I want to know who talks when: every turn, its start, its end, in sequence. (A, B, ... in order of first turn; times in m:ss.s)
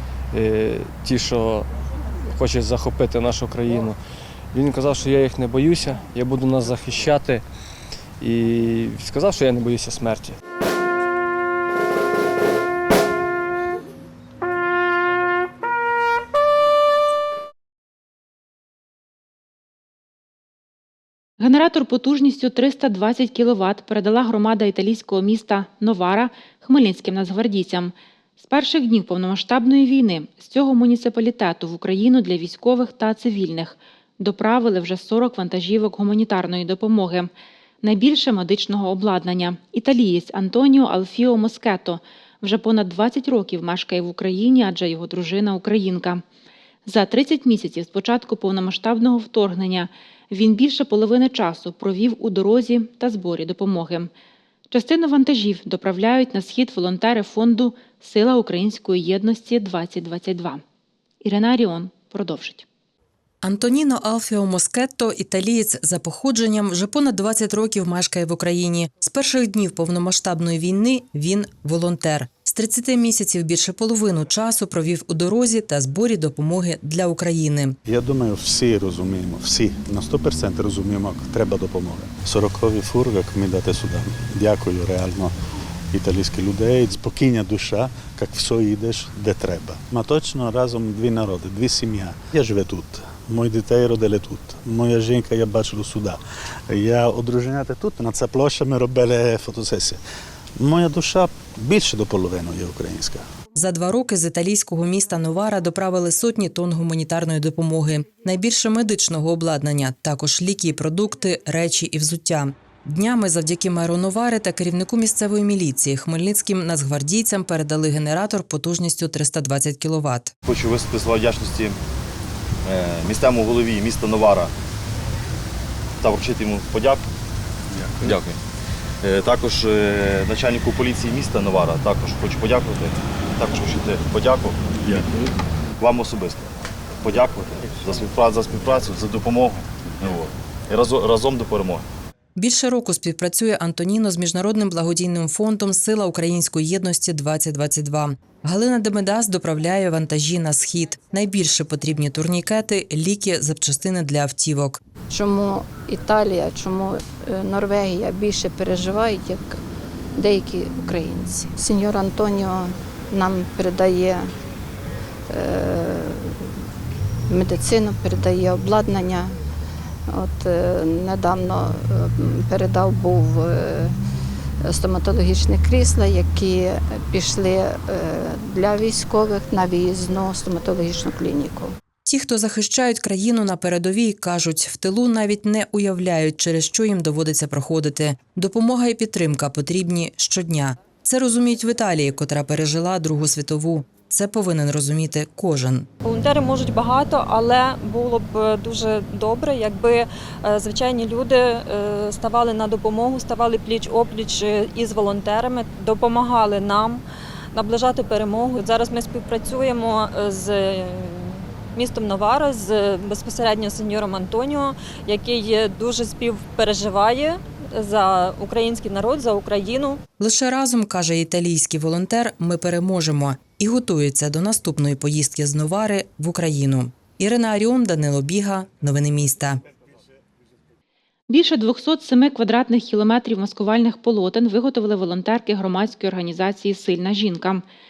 0:00.3-0:01.6 A
0:02.3-0:04.0 A
0:04.5-0:07.4 A
0:08.2-0:10.3 A
0:21.4-0:37.3 B
0:37.8-0:46.2 B
0:46.8-0:54.1 B
0:54.7-1:00.6 B
1:01.2-1:02.6 B
1:03.4-1:17.7 C
1:17.9-1:25.3 D
1:25.9-1:36.2 D
1:36.7-1:40.0 D
1:40.6-1:43.2 D
1:43.6-2:00.3 C
2:00.4-2:01.7 E
2:02.6-2:04.5 E
2:06.0-2:07.0 E
2:08.0-2:08.4 E
2:09.0-2:15.1 E
2:15.8-2:16.4 E
2:17.0-2:21.8 E
2:22.4-2:34.8 C
2:35.1-2:39.6 F
2:40.2-2:44.3 F
2:45.3-2:46.4 F
2:47.3-2:49.4 F
2:50.1-2:53.9 F
2:54.6-3:01.7 F
3:02.0-3:15.9 C
3:16.0-3:27.0 G
3:27.6-3:40.0 G
3:40.2-3:49.6 C
3:51.3-3:57.6 B